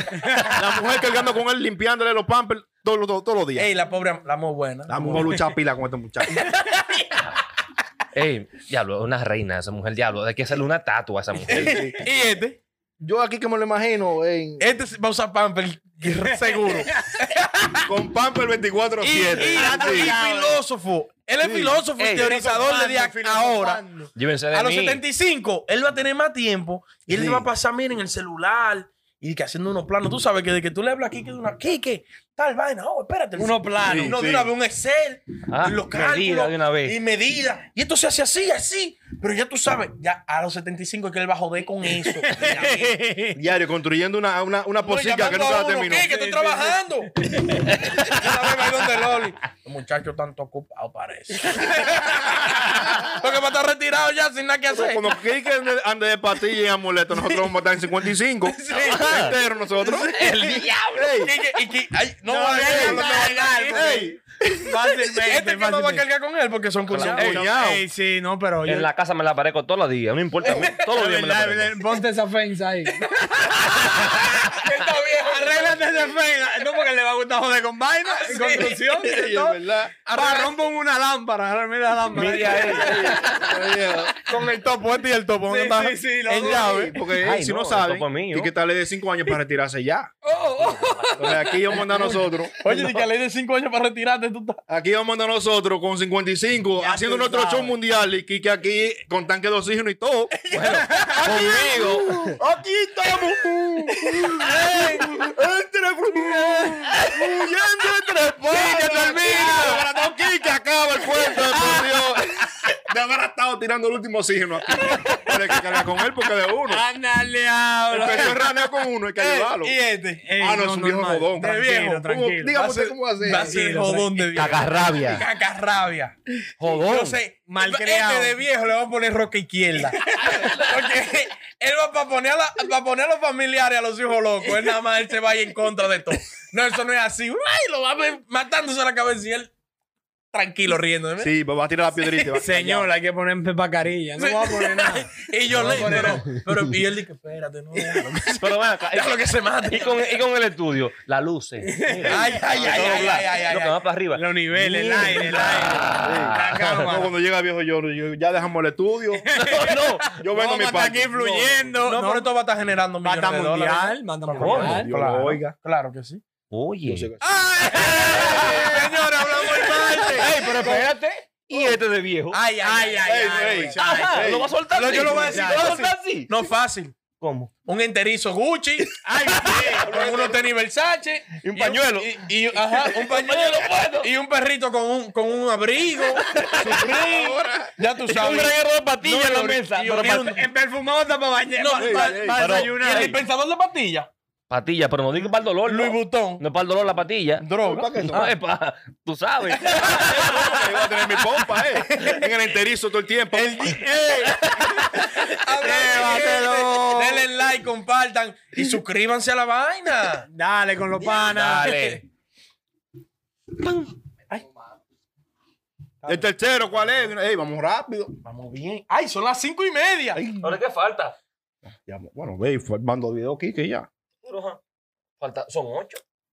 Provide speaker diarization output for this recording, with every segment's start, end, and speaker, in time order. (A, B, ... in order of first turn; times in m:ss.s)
0:00.1-0:00.6 A
0:00.5-0:03.7 B
0:03.6-0:05.5 C
0:04.9-0:06.4 B
0:06.3-0:07.4 C
0:08.1-0:11.8 D
0:11.5-0:12.6 C
0:11.5-0:12.0 B
0:13.0-0:14.7 B
0:14.6-0:17.7 C
0:16.0-0:16.8 A
0:17.9-0:20.1 B
0:19.0-0:23.8 C
0:19.3-0:20.6 A
0:21.4-0:21.8 B
0:22.0-0:22.4 D
0:22.2-0:24.1 A
0:24.2-0:25.0 D
0:24.5-0:43.0 C
0:27.1-0:27.5 B
0:33.4-0:34.2 A
0:33.9-0:34.5 B
0:35.5-0:37.0 D
0:42.1-0:43.4 A
0:43.4-0:46.1 B
0:44.8-0:47.1 C
0:46.0-0:47.8 A
0:47.9-0:55.1 C
0:54.7-1:00.1 B
0:58.5-0:59.1 A
0:58.7-0:59.4 D
1:00.0-1:01.1 D
1:00.9-1:01.3 B
1:01.2-1:04.1 C
1:02.3-1:06.0 A
1:02.6-1:03.1 B
1:03.7-1:04.2 B
1:05.2-1:07.4 C
1:06.9-1:07.4 D
1:07.0-1:07.8 B
1:07.2-1:08.9 A
1:08.6-1:11.8 D
1:10.4-1:10.8 C
1:10.5-1:14.6 A
1:12.9-1:16.3 C
1:15.2-1:19.6 A
1:18.1-1:19.1 C
1:19.0-1:19.9 B
1:20.0-1:20.6 C
1:20.1-1:23.5 A
1:22.1-1:23.1 D
1:22.6-1:24.2 B
1:24.3-1:27.0 C
1:24.3-1:24.6 A
1:25.4-1:27.0 A
1:25.6-1:30.1 B
1:27.2-1:28.5 D
1:30.2-1:31.8 A
1:30.6-1:31.4 D
1:31.2-1:32.6 B
1:32.0-1:34.6 C
1:34.7-1:40.4 B
1:36.8-1:37.8 A
1:40.5-1:42.4 D
1:40.6-1:41.9 A
1:40.6-1:41.5 C
1:41.3-1:56.8 B
1:44.3-1:45.1 A
1:46.2-1:47.1 A
1:48.4-1:50.2 A
1:48.7-1:49.8 D
1:51.0-1:51.9 A
1:54.7-1:55.4 A
1:56.7-1:58.5 A
1:57.9-1:59.8 B
1:59.2-2:00.2 C
2:00.2-2:04.1 A
2:00.4-2:03.6 B
2:01.4-2:02.1 C
2:02.6-2:19.5 C
2:04.3-2:05.2 D
2:06.6-2:07.2 D
2:07.5-2:08.4 A
2:10.2-2:10.5 A
2:20.3-2:21.3 C
2:21.2-2:22.9 B
2:22.0-2:22.4 C
2:22.4-2:26.3 A
2:24.2-2:30.2 C
2:25.6-2:26.0 B
2:28.4-2:36.9 D
2:31.6-2:32.9 A
2:32.0-2:33.8 C
2:34.1-2:37.2 A
2:36.0-2:39.3 B
2:39.2-2:42.3 A
2:39.4-2:40.1 D
2:40.1-2:41.8 B
2:41.9-2:46.2 C
2:43.0-2:44.9 A
2:44.4-2:44.8 D
2:44.4-2:45.6 B
2:46.5-2:47.1 D
2:46.9-2:47.2 B
2:47.2-2:50.8 C
2:47.8-2:50.9 A
2:48.0-2:48.9 B
2:48.2-2:48.6 D
2:49.8-2:52.4 D
2:52.3-2:53.8 C
2:52.6-2:54.4 A
2:53.1-2:54.5 B
2:53.8-2:56.3 D
2:54.7-2:57.0 C
2:55.0-2:55.7 A
2:57.2-2:57.5 D
2:57.6-3:10.5 C
2:59.0-2:59.9 A
2:59.3-3:00.4 D
3:01.4-3:04.1 D
3:06.3-3:06.8 D
3:06.6-3:07.7 B
3:08.1-3:10.2 D
3:09.9-3:13.2 A
3:11.6-3:14.1 C
3:11.8-3:12.4 B
3:12.4-3:13.2 D
3:14.5-3:17.5 D
3:15.6-3:16.5 C
3:17.4-3:18.3 C
3:17.6-3:18.3 B
3:18.0-3:20.7 D
3:19.6-3:20.5 C
3:19.8-3:23.6 B
3:21.9-3:22.3 C
3:23.3-3:24.3 C
3:23.7-3:27.3 A
3:25.2-3:30.3 C
3:30.3-3:32.0 A
3:31.0-3:32.0 D
3:31.5-3:32.0 C
3:36.0-3:38.2 B
3:38.2-3:40.2 C
3:40.1-3:40.6 B
3:40.4-3:41.2 D
3:41.8-3:43.9 B
3:44.2-3:44.6 D
3:45.2-3:46.0 D